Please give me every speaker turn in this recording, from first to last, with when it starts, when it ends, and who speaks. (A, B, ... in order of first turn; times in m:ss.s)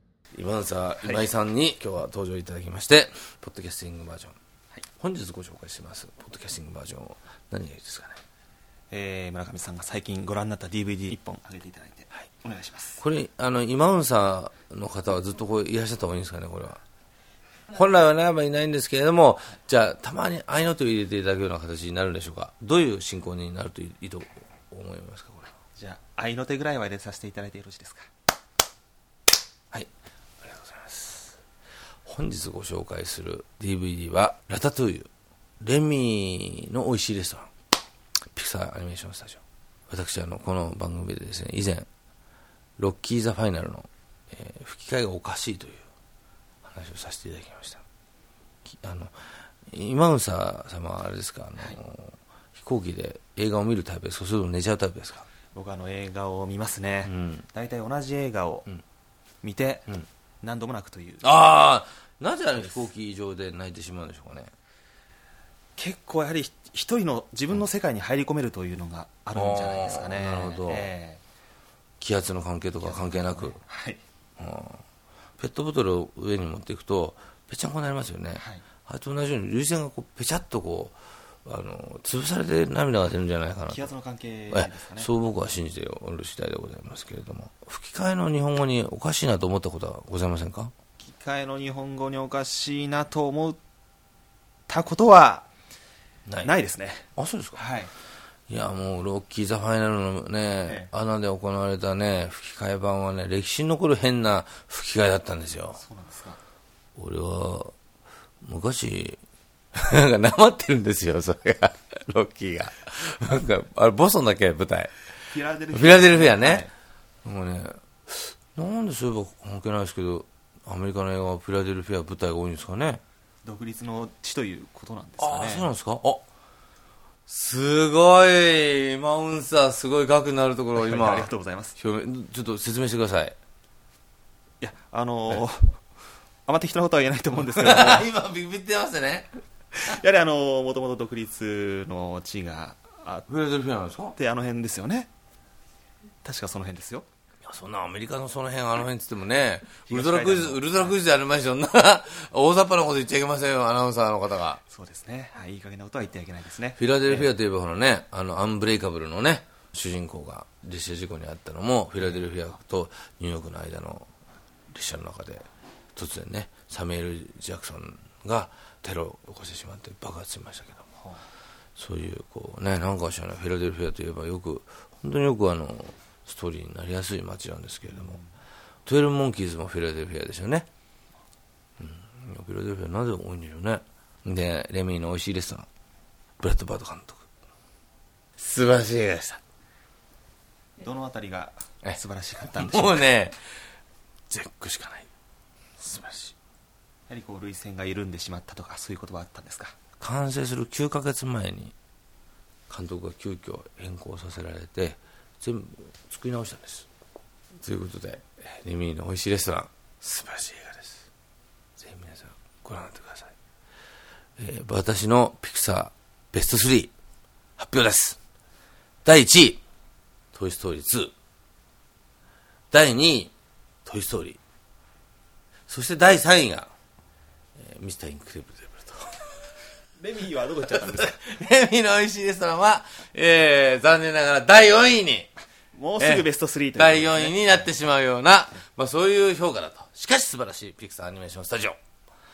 0:00.3-0:04.4 A
0:01.0-0:01.3 B
0:05.0-0:08.2 A
0:08.9-0:13.0 B
0:13.0-0:16.8 A
0:17.7-0:25.5 A
0:25.8-0:28.1 B
0:30.4-0:31.4 A
0:32.0-0:35.1 A
0:35.6-0:37.5 A
0:38.3-0:41.9 A
0:42.8-0:45.9 A
0:46.6-0:47.8 A
0:48.7-0:55.3 A
0:55.5-0:58.7 B
0:57.1-0:57.4 A
0:59.4-1:01.2 B
1:01.2-1:04.5 A
1:05.8-1:11.2 B
1:09.3-1:10.9 A
1:12.0-1:13.6 A
1:12.8-1:14.0 B
1:14.4-1:14.8 A
1:15.4-1:23.9 A
1:18.4-1:18.6 B
1:23.7-1:25.1 B
1:24.5-1:30.7 A
1:31.0-1:33.6 B
1:34.7-1:35.5 B
1:36.4-1:37.9 B
1:37.2-1:37.6 A
1:38.5-1:45.8 A
1:45.8-1:46.4 B
1:47.0-1:47.7 A
1:48.4-1:49.2 A
1:49.7-1:55.0 A
1:55.3-1:56.7 B
1:55.7-1:56.7 A
1:57.2-2:03.0 A
2:03.4-2:05.7 B
2:05.2-2:06.2 A
2:07.3-2:13.4 A
2:10.8-2:11.8 B
2:14.6-2:15.7 B
2:16.5-2:18.1 B
2:17.6-2:19.3 A
2:19.8-2:23.3 B
2:23.3-2:24.2 A
2:24.2-2:25.1 B
2:26.2-2:27.1 B
2:27.4-2:34.6 A
2:29.9-2:31.0 B
2:34.7-2:37.3 B
2:36.8-2:44.1 A
2:44.7-2:50.8 A
2:51.0-2:51.2 B
2:51.8-2:58.2 A
2:57.9-2:58.3 B
2:58.9-3:00.7 A
3:01.8-3:05.7 A
3:06.4-3:07.2 A
3:08.4-3:09.4 A
3:10.8-3:13.1 B
3:11.8-3:13.4 A
3:14.3-3:15.1 A
3:15.8-3:16.4 A
3:17.1-3:19.8 B
3:20.0-3:21.7 A
3:22.7-3:26.9 A
3:27.6-3:31.1 A
3:31.8-3:33.3 A
3:34.4-3:36.9 A
3:37.6-3:38.2 A
3:39.0-3:39.6 A
3:40.3-3:41.1 A
3:42.7-3:43.3 A
3:43.8-3:44.4 A
3:45.7-3:46.7 A
3:47.6-3:49.6 A
3:50.0-3:51.2 B
3:50.4-3:55.3 A
3:55.7-3:57.6 B
3:56.0-3:56.2 A
3:56.8-4:01.8 A